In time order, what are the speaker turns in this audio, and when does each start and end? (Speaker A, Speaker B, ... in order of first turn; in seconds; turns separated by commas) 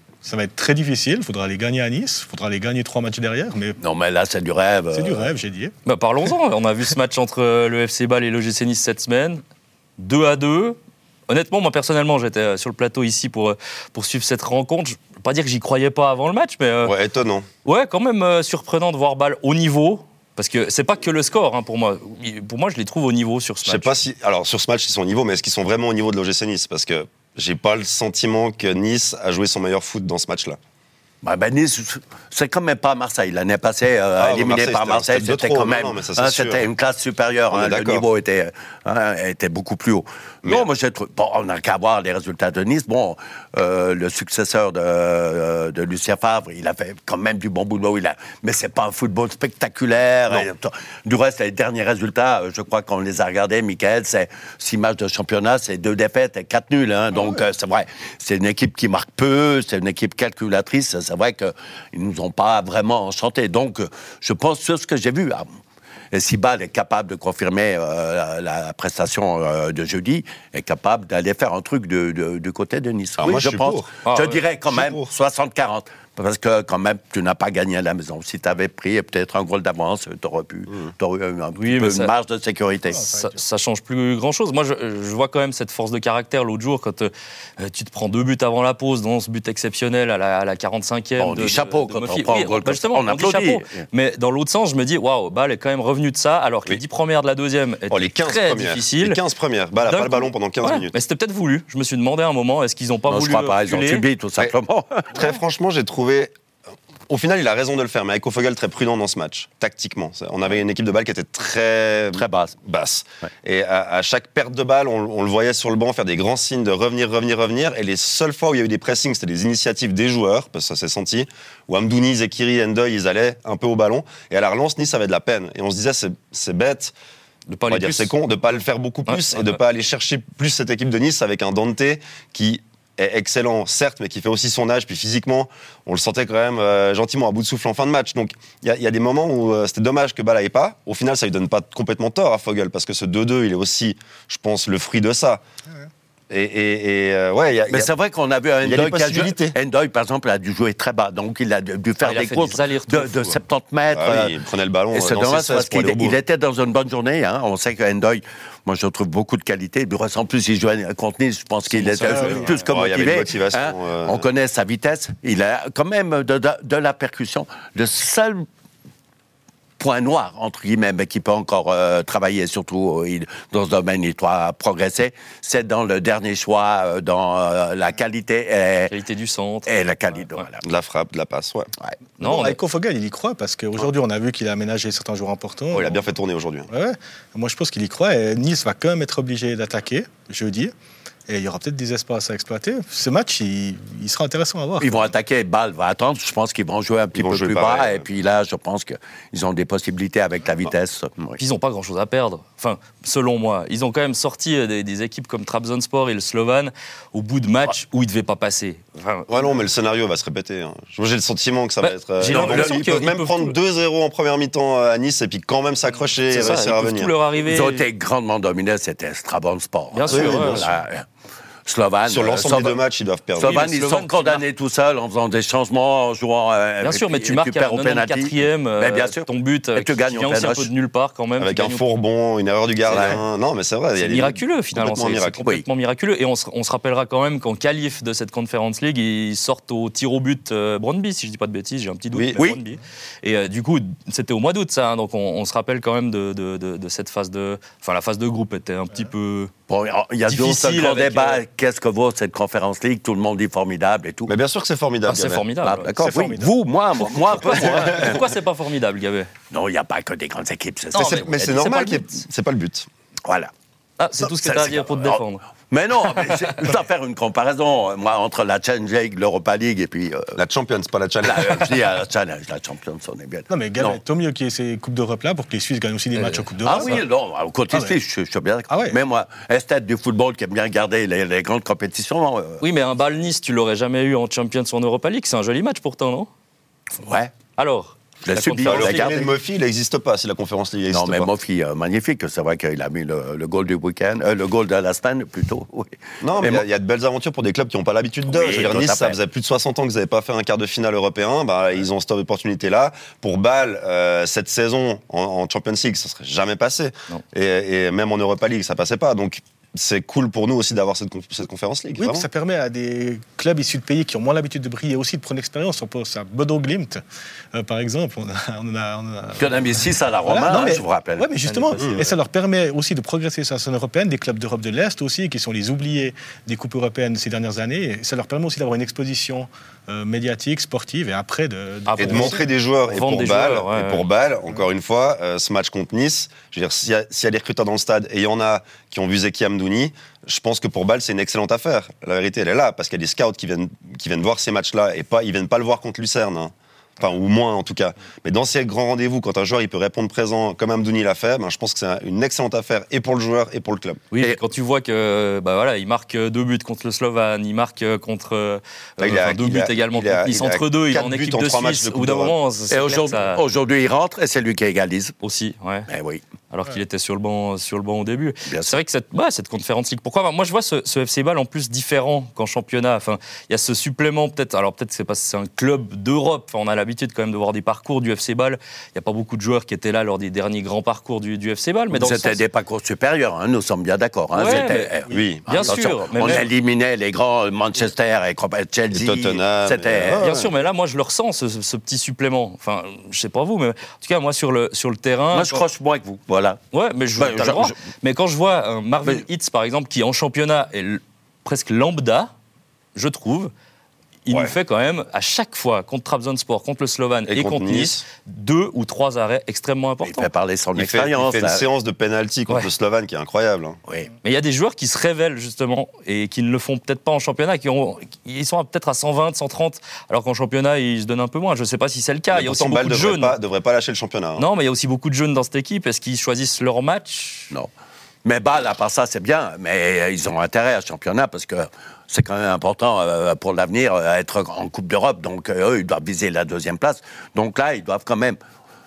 Speaker A: 0.2-3.8, Speaker B: 3.8-5.3, Speaker A: 4.9-5.7, Speaker C: 5.8-9.4, Speaker C: 10.0-10.8, Speaker C: 11.3-16.9, Speaker D: 16.8-17.4, Speaker C: 17.6-24.0, Speaker D: 23.6-30.6, Speaker B: 31.2-65.5, Speaker D: 34.2-36.7, Speaker D: 37.5-38.1, Speaker B: 66.1-83.0, Speaker D: 73.2-73.9, Speaker C: 74.0-74.4, Speaker D: 74.7-75.1, Speaker C: 81.6-82.1, Speaker A: 82.9-83.4, Speaker C: 82.9-99.2, Speaker B: 91.2-93.8, Speaker D: 97.9-100.9, Speaker C: 99.8-104.0, Speaker B: 103.1-105.2, Speaker D: 105.1-106.3, Speaker D: 107.1-126.9, Speaker B: 112.1-112.5, Speaker C: 127.5-128.1, Speaker D: 127.7-145.4, Speaker C: 129.1-129.6, Speaker D: 146.3-147.9, Speaker B: 147.7-154.3, Speaker D: 148.6-149.6, Speaker C: 152.0-153.4, Speaker D: 153.9-156.2, Speaker B: 154.9-168.4, Speaker D: 161.7-164.2, Speaker A: 162.1-162.5, Speaker B: 169.8-178.9, Speaker C: 178.9-179.7, Speaker B: 179.7-180.7, Speaker D: 180.6-181.7, Speaker C: 182.2-182.6, Speaker A: 182.2-186.0, Speaker D: 185.7-186.7, Speaker A: 186.7-190.7, Speaker A: 191.3-195.0, Speaker B: 194.8-201.4, Speaker D: 197.1-198.1, Speaker C: 201.4-209.3, Speaker D: 209.3-217.1, Speaker C: 211.8-213.6, Speaker B: 212.3-212.8, Speaker C: 216.3-217.8, Speaker B: 217.4-221.0, Speaker C: 219.9-220.7, Speaker D: 220.1-220.7, Speaker B: 221.7-222.8, Speaker D: 222.1-223.7, Speaker B: 223.4-230.7, Speaker C: 223.5-224.4, Speaker C: 226.8-231.9, Speaker D: 231.4-235.4, Speaker C: 232.8-233.2, Speaker B: 232.9-233.2, Speaker C: 234.0-249.5, Speaker D: 242.1-242.4, Speaker B: 249.7-254.3, Speaker C: 250.3-251.4, Speaker D: 254.3-255.4, Speaker C: 255.0-256.2, Speaker B: 255.6-258.2, Speaker A: 255.9-256.5, Speaker C: 257.1-259.3, Speaker B: 259.5-261.8, Speaker C: 260.9-262.1, Speaker D: 260.9-262.9, Speaker B: 263.2-263.5, Speaker C: 264.0-265.5, Speaker B: 264.3-270.4, Speaker D: 270.4-271.8, Speaker B: 271.2-274.0, Speaker A: 273.5-277.1, Speaker B: 276.2-282.6, Speaker C: 276.7-277.0, Speaker A: 277.7-278.0, Speaker A: 278.7-279.0, Speaker C: 282.6-286.3, Speaker B: 287.0-287.3, Speaker C: 287.6-289.2, Speaker B: 288.2-289.3, Speaker D: 288.6-291.3, Speaker B: 290.9-296.6, Speaker D: 296.2-312.2, Speaker B: 298.3-299.2, Speaker A: 312.0-317.0, Speaker A: 317.5-332.4, Speaker B: 319.4-321.3, Speaker C: 321.4-322.1, Speaker D: 321.8-322.0, Speaker C: 331.9-334.1, Speaker D: 332.0-354.0, Speaker C: 354.1-363.4, Speaker D: 359.0-362.4, Speaker B: 362.7-365.1, Speaker C: 365.2-365.9, Speaker B: 365.9-366.2, Speaker C: 366.5-382.4, Speaker B: 368.5-368.8, Speaker B: 381.9-390.3, Speaker C: 384.3-384.9, Speaker D: 385.1-385.8, Speaker C: 385.4-386.5, Speaker D: 388.9-390.5, Speaker C: 390.1-395.6, Speaker B: 395.3-396.6, Speaker C: 396.7-402.3, Speaker B: 397.1-397.8, Speaker C: 402.9-403.5, Speaker C: 404.2-410.3, Speaker D: 404.3-404.6, Speaker D: 407.3-408.0, Speaker B: 410.0-411.6, Speaker D: 410.8-413.8, Speaker C: 414.2-423.4, Speaker D: 422.3-424.5, Speaker C: 424.4-427.5, Speaker B: 428.2-438.4